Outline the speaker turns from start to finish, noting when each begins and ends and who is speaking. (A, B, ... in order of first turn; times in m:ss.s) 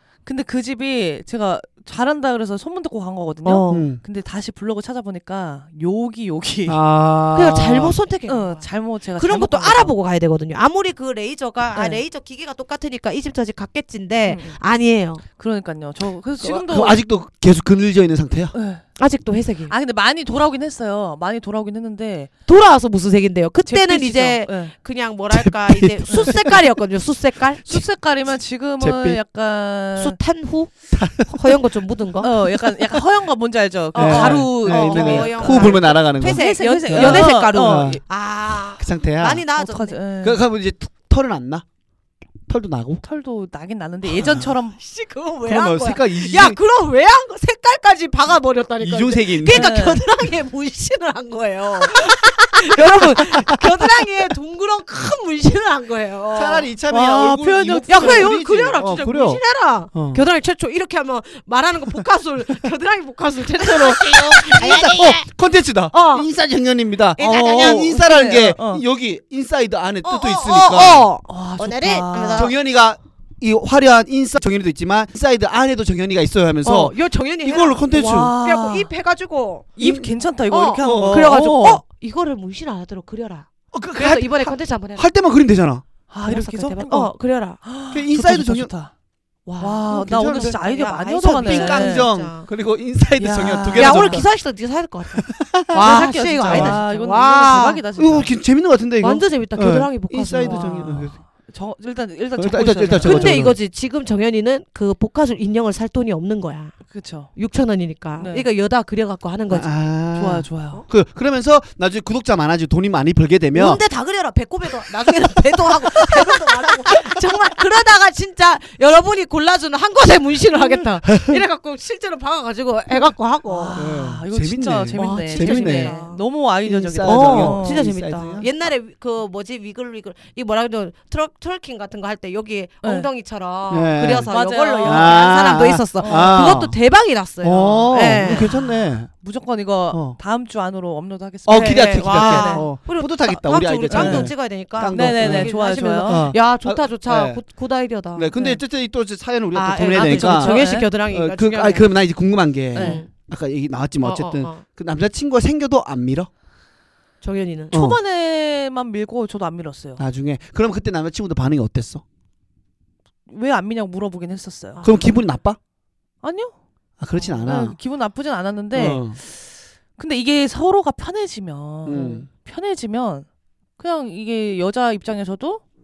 0:00.2-0:06.8 A
0:03.4-0:03.9 B
0:03.7-0:04.0 C
0:06.7-0:08.0 C
0:07.3-0:15.2 B
0:08.3-0:09.9 A
0:11.7-0:12.0 A
0:14.2-0:14.6 A
0:15.3-0:17.0 A
0:16.4-0:18.5 C
0:18.5-0:18.8 A
0:19.0-0:19.7 B
0:19.7-0:22.3 A
0:22.5-0:27.8 B
0:23.7-0:24.7 A
0:25.3-0:26.6 C
0:26.1-0:26.3 A
0:27.6-0:30.2 A
0:28.8-0:29.2 C
0:30.0-0:30.7 B
0:30.9-0:31.6 C
0:31.3-0:32.3 B
0:32.2-0:38.0 A
0:33.9-0:40.0 B
0:34.0-0:38.0 C
0:38.8-0:39.4 C
0:39.6-0:40.4 A
0:40.2-0:41.6 C
0:42.5-0:43.0 C
0:43.0-0:44.8 A
0:44.1-0:44.5 C
0:44.8-0:56.7 B
0:45.4-0:46.6 C
0:48.8-0:49.7 C
0:49.5-0:50.0 A
0:52.7-0:53.9 C
0:56.3-0:59.4 C
0:56.9-0:58.3 A
0:57.9-1:05.2 B
0:59.9-1:00.2 C
1:03.6-1:11.1 C
1:05.9-1:06.3 B
1:07.2-1:08.0 B
1:07.2-1:08.8 A
1:10.0-1:12.5 B
1:11.3-1:12.5 A
1:12.3-1:18.3 C
1:16.6-1:19.8 B
1:17.9-1:18.9 A
1:19.8-1:21.8 A
1:19.8-1:20.1 C
1:20.5-1:25.1 B
1:20.8-1:21.3 C
1:23.7-1:25.8 C
1:26.1-1:27.1 A
1:26.2-1:27.6 B
1:27.6-1:28.9 A
1:27.9-1:28.7 C
1:29.4-1:32.5 B
1:29.6-1:32.1 A
1:29.9-1:30.6 C
1:31.2-1:34.2 C
1:33.2-1:34.2 A
1:33.7-1:37.8 B
1:35.2-1:36.8 C
1:35.8-1:38.3 A
1:38.0-1:41.2 C
1:39.0-1:41.0 B
1:40.4-1:43.4 A
1:42.4-1:43.6 C
1:43.0-1:46.7 B
1:46.9-1:47.3 A
1:47.3-1:49.7 B
1:48.2-1:48.4 A
1:49.5-1:53.8 C
1:50.1-1:50.8 A
1:53.5-2:03.8 B
2:00.5-2:00.8 A
2:03.4-2:07.8 A
2:03.7-2:05.9 C
2:04.9-2:06.2 B
2:06.6-2:08.5 C
2:07.0-2:18.5 B
2:12.8-2:13.1 A
2:13.7-2:14.3 C
2:14.3-2:16.6 A
2:14.8-2:16.8 C
2:17.4-2:19.1 C
2:18.0-2:22.7 A
2:19.9-2:20.2 C
2:21.4-2:27.4 C
2:21.5-2:28.5 B
2:23.9-2:24.3 A
2:24.9-2:26.3 A
2:28.2-2:36.3 C
2:29.5-2:31.9 B
2:29.9-2:30.9 A
2:32.7-2:33.0 A
2:32.7-2:33.1 B
2:34.0-2:34.6 B
2:37.2-2:37.7 B
2:37.7-2:38.0 C
2:37.7-2:40.0 A
2:40.0-2:42.0 C
2:43.3-2:44.8 A
2:44.8-2:45.2 B
2:44.8-2:45.6 C
2:46.2-2:46.5 A
2:47.0-2:47.8 C
2:47.2-2:49.2 A
2:48.7-2:49.2 C
2:50.0-2:53.2 A
2:51.8-2:52.3 C
2:53.8-2:55.6 A